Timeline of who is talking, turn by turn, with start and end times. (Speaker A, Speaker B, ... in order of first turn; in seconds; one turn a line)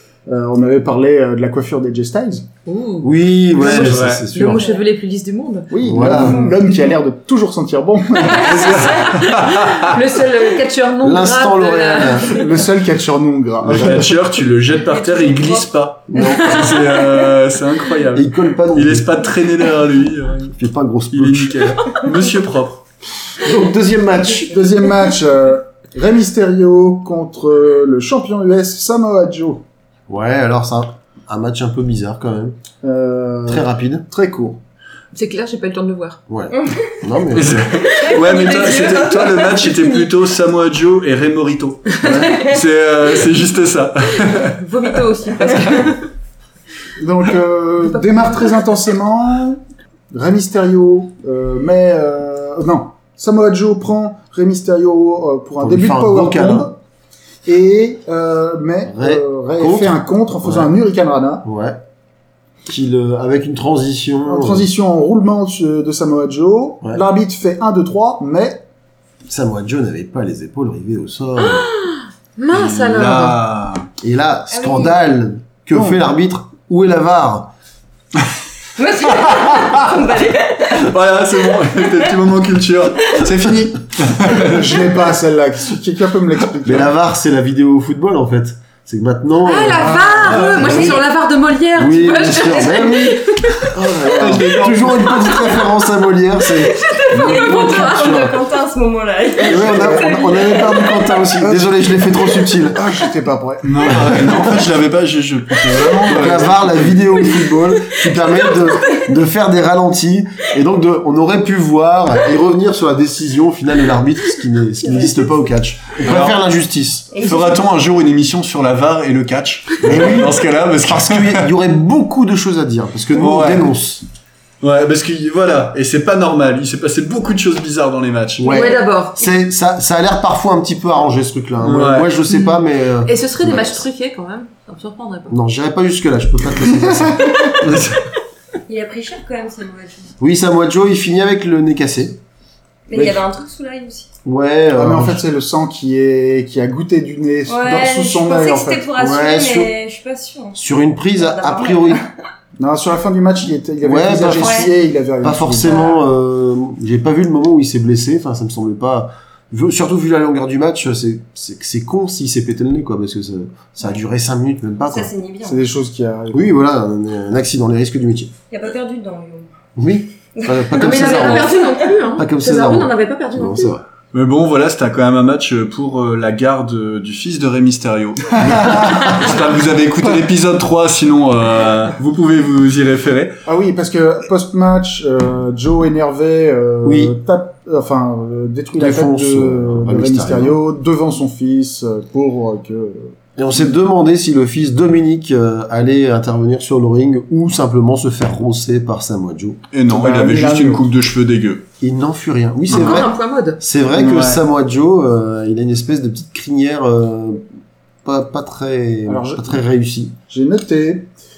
Speaker A: 0.2-2.5
Speaker B: 2.6-3.1
Speaker C: 3.0-4.7
Speaker D: 3.6-4.3
Speaker B: 3.6-6.1
Speaker E: 4.4-4.8
Speaker A: 5.7-8.9
Speaker C: 5.8-6.5
Speaker E: 6.1-6.6
Speaker D: 8.3-10.0
Speaker B: 8.4-12.5
Speaker C: 11.0-12.3
Speaker A: 12.3-14.1
Speaker D: 13.6-20.5
Speaker C: 13.7-14.1
Speaker E: 14.7-17.4
Speaker C: 16.1-16.8
Speaker C: 18.1-19.3
Speaker C: 20.5-21.8
Speaker D: 21.1-22.8
Speaker C: 23.4-24.9
Speaker A: 24.5-29.6
Speaker C: 30.1-32.5
Speaker A: 32.8-34.6
Speaker C: 33.5-34.0
Speaker B: 35.1-36.2
Speaker C: 36.3-37.6
Speaker E: 36.5-37.0
Speaker D: 37.3-44.6
Speaker E: 37.7-40.1
Speaker B: 41.9-42.5
Speaker C: 42.0-42.4
Speaker B: 44.2-46.1
Speaker A: 47.0-56.8
Speaker B: 47.8-48.6
Speaker C: 55.6-56.7
Speaker A: 57.5-61.5
Speaker C: 58.9-60.7
Speaker C: 61.4-61.8
Speaker C: 62.6-64.7
Speaker A: 64.2-68.6
Speaker C: 69.3-71.7
Speaker B: 71.4-73.4
Speaker D: 72.5-73.9
Speaker C: 74.0-77.5
Speaker E: 74.5-75.0
Speaker A: 75.7-76.0
Speaker E: 78.8-80.9
Speaker D: 79.1-79.9
Speaker D: 80.7-85.0
Speaker E: 81.5-82.0
Speaker A: 83.3-86.9
Speaker C: 86.6-91.0
Speaker B: 89.4-93.7
Speaker A: 89.8-90.4
Speaker D: 90.2-90.9
Speaker E: 90.5-91.0
Speaker C: 91.8-98.4
Speaker D: 94.1-95.3
Speaker E: 96.5-101.3
Speaker B: 97.2-97.7
Speaker C: 99.4-102.8
Speaker A: 99.5-100.2
Speaker A: 101.4-102.0
Speaker A: 102.5-104.4
Speaker D: 103.6-107.0
Speaker C: 104.1-104.6
Speaker C: 106.0-117.1
Speaker B: 107.3-107.5
Speaker D: 116.0-116.4
Speaker D: 117.1-121.5
Speaker E: 117.1-117.6
Speaker C: 119.8-124.0
Speaker D: 123.1-123.7
Speaker D: 124.6-128.5
Speaker C: 128.4-133.8
Speaker B: 128.5-129.2
Speaker E: 128.5-129.3
Speaker D: 131.6-132.1
Speaker B: 132.3-135.3
Speaker C: 135.3-137.5
Speaker D: 137.6-138.0
Speaker E: 138.7-140.1
Speaker C: 140.2-142.2
Speaker E: 142.9-144.1
Speaker A: 142.9-143.2
Speaker C: 144.2-145.2
Speaker A: 144.8-148.9
Speaker E: 147.5-150.6
Speaker C: 149.0-149.7
Speaker C: 150.5-152.0
Speaker E: 151.2-152.1
Speaker A: 152.6-155.8
Speaker C: 153.8-165.1
Speaker E: 154.3-154.7
Speaker E: 155.6-156.0
Speaker E: 164.9-165.6
Speaker A: 165.4-166.6
Speaker C: 166.3-168.3
Speaker E: 168.5-169.5
Speaker C: 169.8-171.5
Speaker E: 170.4-171.9
Speaker B: 170.8-173.8
Speaker C: 172.1-173.8
Speaker D: 174.1-183.4
Speaker C: 178.4-179.3
Speaker A: 178.6-179.0
Speaker A: 183.4-193.2
Speaker C: 186.8-187.1
Speaker C: 188.7-190.6
Speaker C: 193.4-199.6
Speaker D: 199.7-201.7
Speaker A: 199.9-200.9
Speaker C: 201.8-207.4
Speaker B: 202.7-203.6
Speaker D: 202.7-203.0
Speaker D: 204.0-204.4
Speaker A: 204.0-204.3
Speaker C: 208.0-210.2
Speaker A: 209.1-209.6
Speaker A: 210.3-211.1